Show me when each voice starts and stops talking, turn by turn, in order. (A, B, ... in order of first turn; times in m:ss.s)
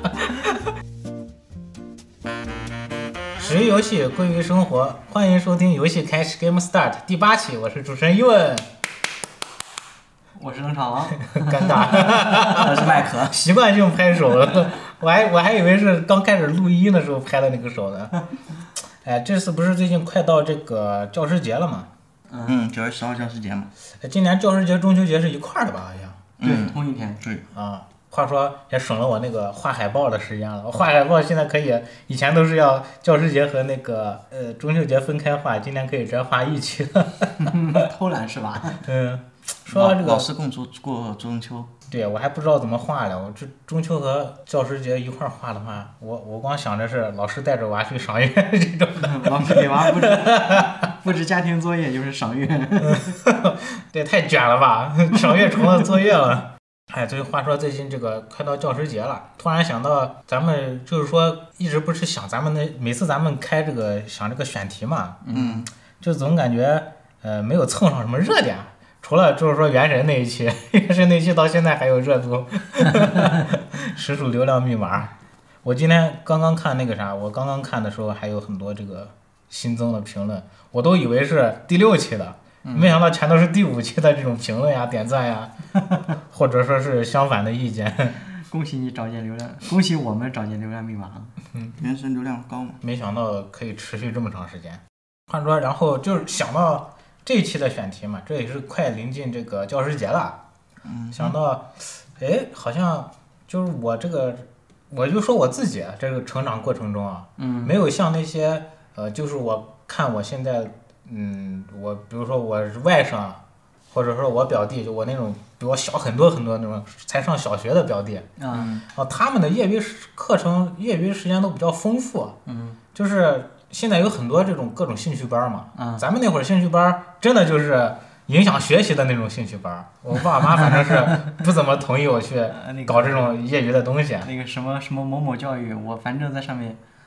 0:03.4-0:08.7 A
0:10.4-0:12.9 B
0:11.3-0:12.7 A
0:12.5-0:13.4 C
0:13.2-0:18.2 A
0:19.0-0:21.9 A
0:22.3-0:22.6 B
0:22.4-0:23.7 C
0:24.0-0:26.2 A
0:26.4-0:27.4 C
0:26.4-0:27.2 B
0:27.5-0:37.8 A
0:37.4-0:38.8 B
0:38.8-0:40.2 A
0:39.7-0:41.7 C
0:41.9-0:50.9 A
0:49.0-0:53.2 B
0:52.8-1:15.1 A
0:55.2-0:55.9 B
1:05.2-1:05.6 B
1:05.3-1:05.6 C
1:15.6-1:28.2 A
1:22.6-1:23.0 B
1:28.4-1:31.3 B
1:31.8-1:32.8 C
1:32.8-1:40.4 A
1:40.8-1:41.3 C
1:41.1-1:53.4 A
1:47.4-1:47.8 B
1:53.9-1:58.3 A
1:58.4-1:58.7 B
1:58.5-1:58.8 C
1:58.9-2:02.4 A
2:02.4-2:02.8 B
2:02.9-2:14.3 A
2:05.7-2:06.0 B
2:10.4-2:11.4 B
2:12.5-2:13.3 B
2:14.2-2:16.8 B